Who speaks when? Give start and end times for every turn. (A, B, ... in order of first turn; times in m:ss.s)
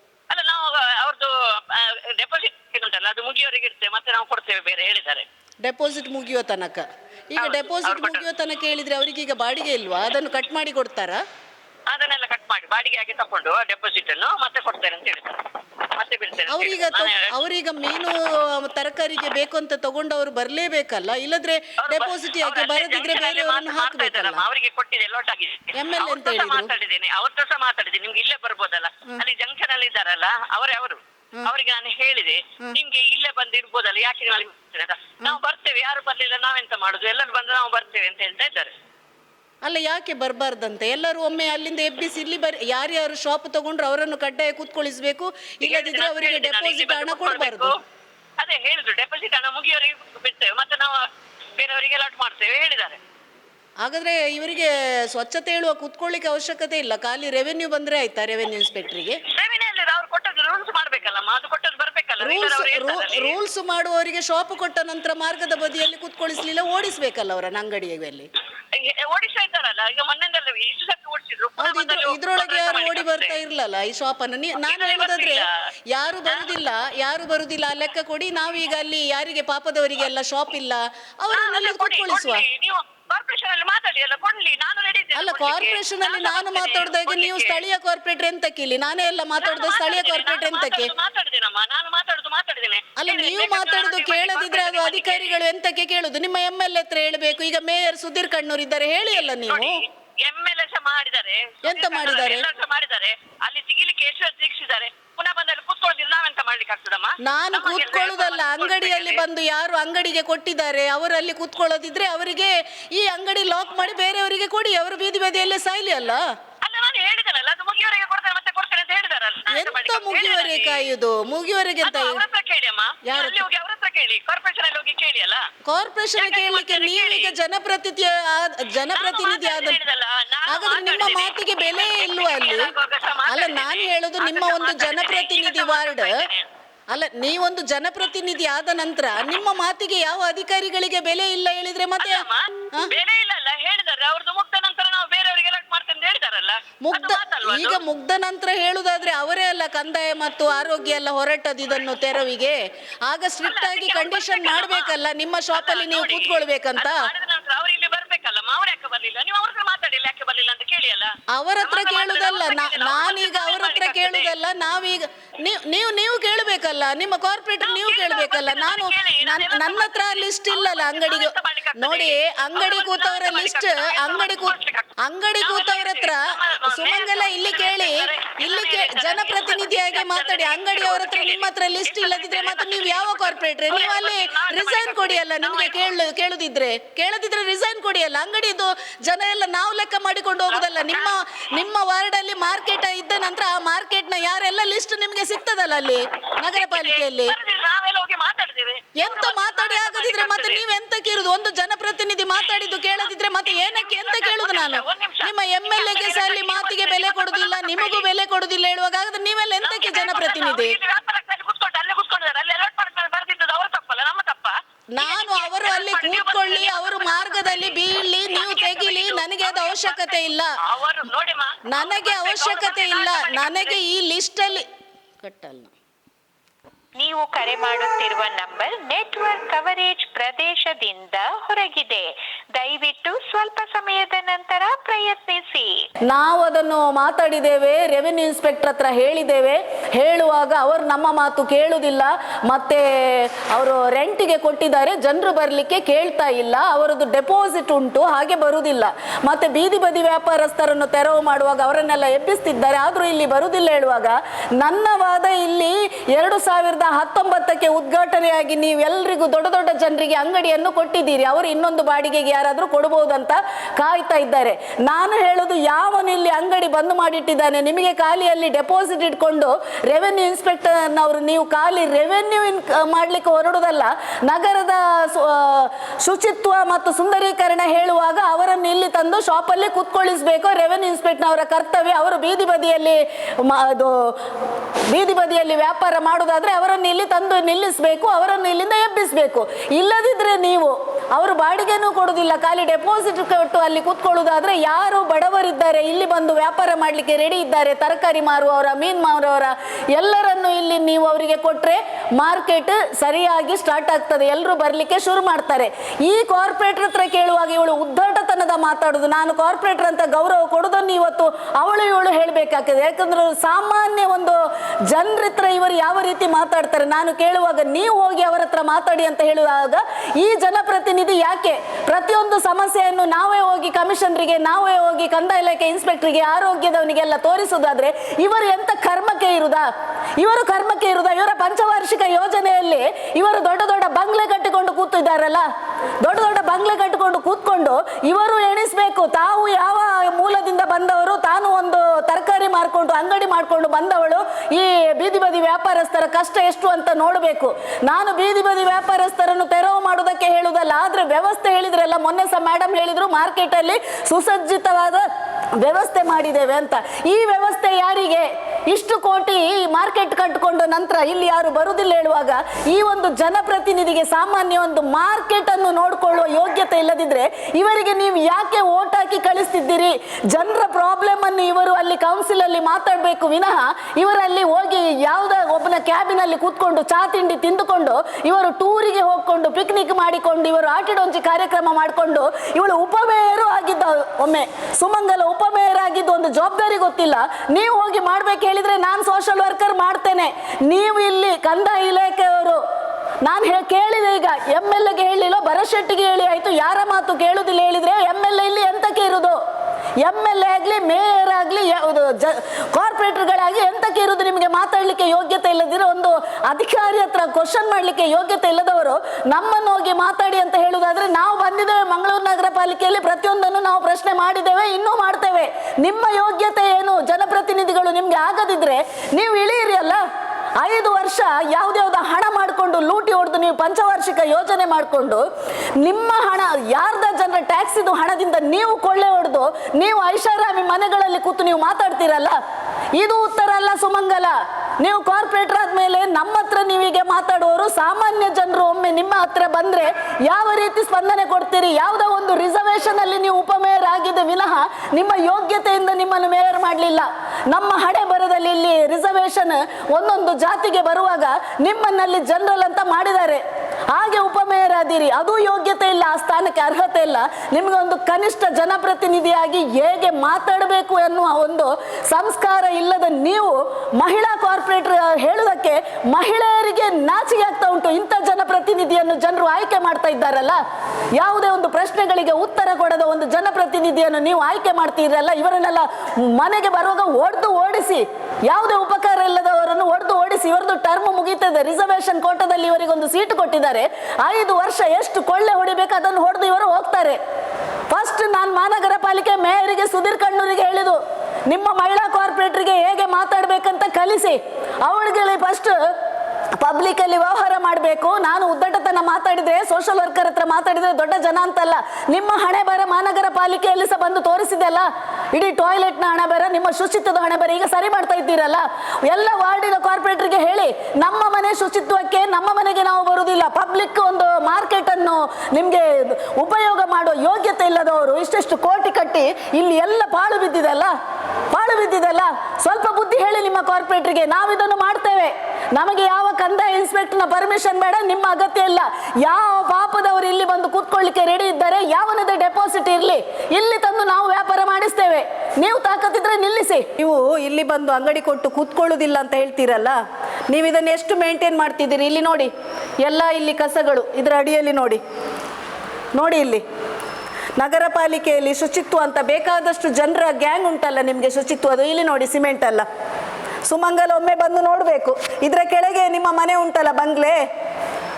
0:00.3-0:05.2 A
0:05.6-0:11.2 B
0:07.4-0:08.2 A
0:11.9-0:17.3 A
0:16.5-0:24.4 B
0:21.8-0:38.7 A
0:25.7-0:26.7 B
0:39.6-0:47.7 B
0:45.6-0:47.8 A
0:48.4-0:53.0 A
0:53.8-0:59.2 B
0:59.3-1:03.3 A
1:02.2-1:08.3 B
1:08.7-1:13.4 A
1:11.6-1:22.4 B
1:14.5-1:15.5 A
1:16.2-1:16.5 A
1:21.3-1:27.6 A
1:25.1-1:30.9 B
1:29.4-1:35.4 A
1:33.0-1:39.8 B
1:39.1-1:49.2 A
1:41.6-1:42.5 B
1:47.2-1:56.3 B
1:56.6-2:00.9 A
1:59.5-2:02.2 B
2:01.8-2:05.5 A
2:03.0-2:03.4 B
2:05.6-2:09.8 B
2:06.2-2:07.4 A
2:08.9-2:16.5 A
2:10.5-2:12.7 B
2:13.3-2:16.2 B
2:16.9-2:22.9 B
2:22.0-2:27.8 A
2:26.8-2:37.1 B
2:33.4-2:34.9 A
2:35.5-2:44.3 A
2:41.3-3:17.3 B
2:47.6-3:05.9 A
3:10.5-3:11.2 A
3:16.4-3:20.6 A
3:19.0-3:30.8 B
3:23.4-3:28.1 A
3:29.6-3:43.8 A
3:34.9-3:40.5 B
3:41.7-3:44.7 B
3:45.2-3:45.7 B
3:47.0-3:55.8 C
3:56.1-4:44.2 B
4:44.9-5:29.7 B
5:30.2-5:35.4 B
5:36.0-5:55.0 B
5:55.6-6:32.6 B
6:33.2-6:39.4 B
6:40.0-7:00.0 B
7:00.6-7:05.2 B
7:05.8-7:12.3 B
7:12.9-7:50.6 B
7:51.2-8:07.2 B
8:07.9-8:15.7 B
8:16.6-8:40.9 B
8:41.5-9:00.0 B
9:00.5-9:02.5 B
9:03.0-9:05.0 B
9:06.1-9:06.6 B
9:07.6-9:12.8 B
9:13.6-9:17.4 B